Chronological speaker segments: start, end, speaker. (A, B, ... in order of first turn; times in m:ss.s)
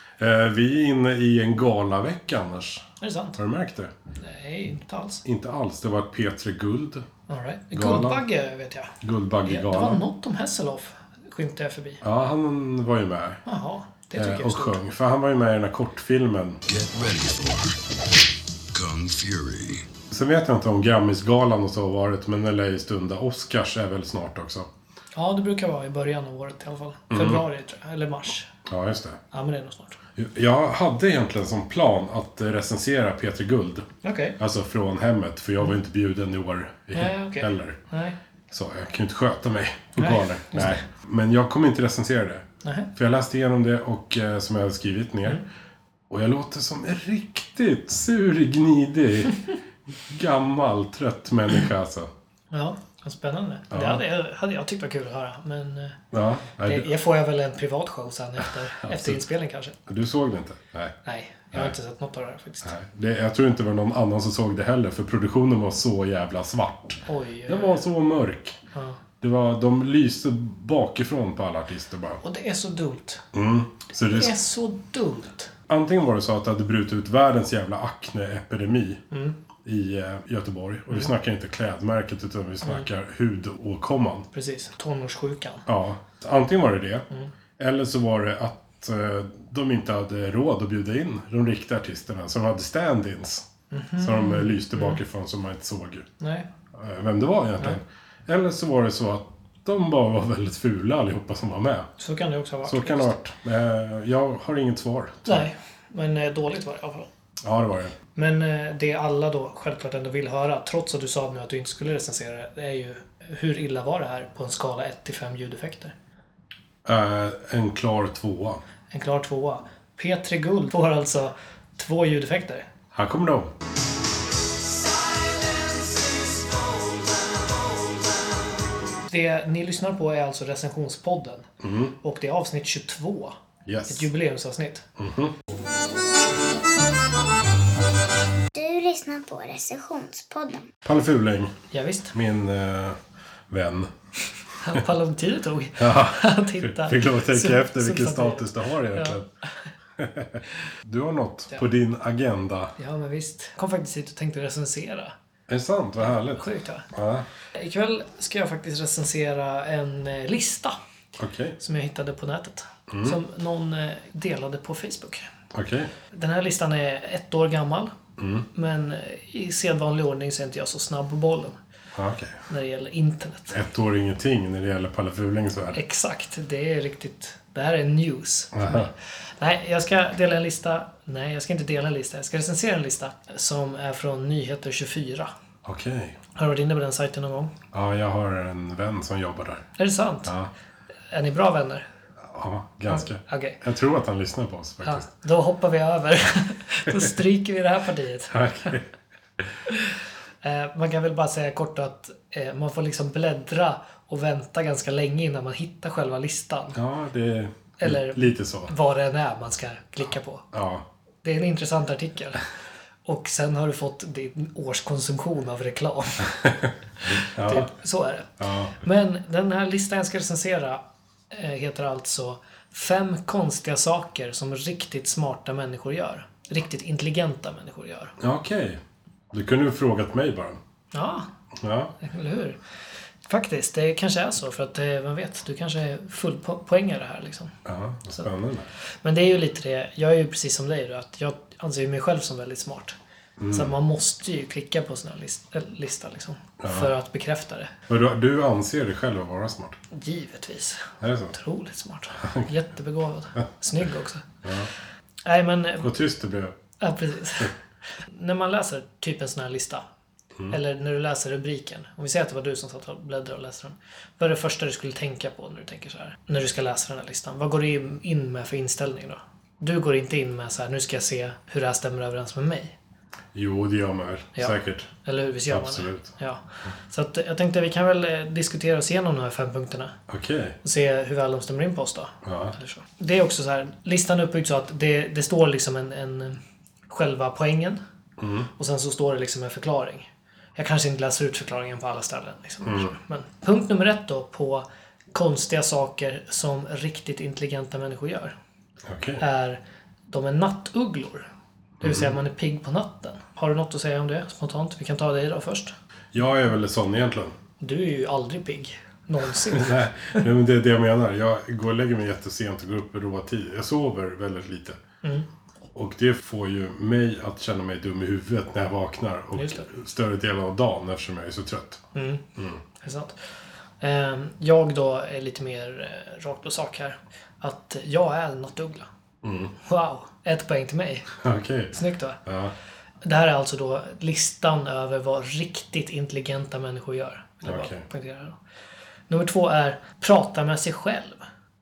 0:00.2-0:03.9 A
0:03.0-0:03.4 B
0:04.2-0:05.2 B
0:05.2-0:07.1 A
0:07.3-0:12.0 B
0:07.7-0:08.2 A
0:09.0-0:10.0 A
0:12.0-0:13.4 A
0:13.4-0:14.8 B
0:14.2-0:16.6 A
0:16.7-0:17.8 C
0:18.7-0:19.9 C
0:20.1-0:24.7 A
0:25.2-0:28.5 B
0:27.1-0:27.4 A
0:28.7-0:29.2 A
0:29.3-0:30.0 B
0:30.2-0:37.8 A
0:34.0-0:34.4 B
0:36.9-0:38.2 B
0:38.5-0:45.4 A
0:40.0-0:40.8 B
0:42.6-0:42.9 B
0:46.1-0:49.4 A
0:50.1-0:52.1 A
0:52.5-0:56.0 B
0:53.7-0:54.0 A
0:56.1-0:56.9 A
0:56.6-0:59.8 B
0:58.8-0:59.2 A
0:59.9-1:01.0 A
1:01.0-1:02.7 B
1:02.6-1:08.6 A
1:07.1-1:07.8 B
1:08.7-1:09.0 B
1:09.2-1:12.2 A
1:12.2-1:13.2 B
1:13.3-1:14.4 A
1:14.1-1:15.5 B
1:15.7-1:19.0 A
1:19.1-1:19.4 B
1:19.6-1:24.3 A
1:24.3-1:25.7 B
1:25.7-1:27.1 A
1:27.6-1:36.1 A
1:33.7-1:35.0 B
1:36.2-1:36.5 B
1:36.7-1:41.9 A
1:42.0-1:43.2 B
1:42.6-1:45.5 A
1:45.3-1:47.1 B
1:47.4-1:48.0 A
1:48.2-1:55.9 B
1:56.8-1:58.6 A
1:58.9-2:02.7 B
2:02.9-2:03.6 A
2:05.6-2:07.3 B
2:09.1-2:11.5 B
2:11.6-2:12.0 A
2:12.0-2:13.4 B
2:13.7-2:14.1 A
2:13.9-2:14.9 B
2:15.0-2:15.4 A
2:18.5-2:20.7 D
2:20.8-2:21.6 A
2:21.7-2:22.2 B
2:22.1-2:23.9 A
2:24.6-2:29.2 B
2:25.8-2:29.3 A
2:30.0-2:32.7 A
2:32.8-2:35.1 B
2:35.5-2:37.3 A
2:36.1-2:36.9 B
2:37.5-2:40.8 B
2:41.2-2:41.6 A
2:41.6-2:45.3 B
2:42.9-2:43.2 A
2:45.5-2:45.9 A
2:46.1-2:47.9 B
2:48.2-2:48.5 A
2:48.5-2:51.6 B
2:52.0-2:52.4 A
2:52.5-2:53.6 B
2:53.5-2:55.8 A
2:55.7-3:05.3 B
2:58.5-2:58.9 A
3:05.6-3:06.2 A
3:06.4-3:07.6 B
3:07.7-3:09.7 A
3:09.8-3:10.3 B
3:10.2-3:10.5 A
3:11.1-3:11.9 B
3:12.2-3:15.1 A
3:12.9-3:13.6 B
3:14.8-3:18.8 B
3:18.3-3:18.9 A
3:19.7-3:26.8 B
3:26.8-3:28.7 A
3:27.8-3:30.4 B
3:30.5-3:30.9 A
3:31.2-3:32.4 B
3:33.0-3:36.4 B
3:37.0-3:48.1 B
3:37.2-3:37.7 A
3:38.4-3:38.8 A
3:48.2-3:48.8 A
3:49.3-3:50.6 A
3:50.9-3:51.3 B
3:51.6-3:51.9 A
3:52.0-3:52.6 B
3:53.3-3:57.6 B
3:57.6-3:58.7 A
3:59.0-4:03.0 B
4:03.4-4:03.7 A
4:03.5-4:07.7 B
4:06.6-4:06.9 A
4:07.9-4:09.8 A
4:09.9-4:14.3 B
4:11.0-4:11.4 A
4:12.2-4:12.5 A
4:14.4-4:14.7 A
4:15.2-4:15.9 B
4:15.8-4:16.6 A
4:16.8-4:19.8 B
4:20.5-4:32.8 B
4:33.3-4:34.9 A
4:34.4-4:40.0 B
4:35.5-4:36.1 A
4:40.1-4:40.6 A
4:40.6-4:47.8 B
4:42.2-4:42.6 A
4:48.2-4:48.5 A
4:48.6-4:58.3 B
4:58.8-4:59.2 A
4:59.2-5:01.3 B
5:01.8-5:02.1 A
5:01.8-5:05.7 B
5:06.1-5:07.4 A
5:07.6-5:10.3 B
5:09.5-5:14.8 A
5:15.7-5:21.8 A
5:19.4-5:19.7 B
5:21.9-5:23.2 B
5:22.4-5:22.6 A
5:23.8-5:28.9 B
5:29.2-5:29.5 A
5:29.6-5:31.2 B
5:31.2-5:31.7 A
5:31.7-5:32.2 B
5:32.2-5:32.5 A
5:33.0-5:38.4 B
5:37.4-5:37.8 A
5:39.1-5:41.2 B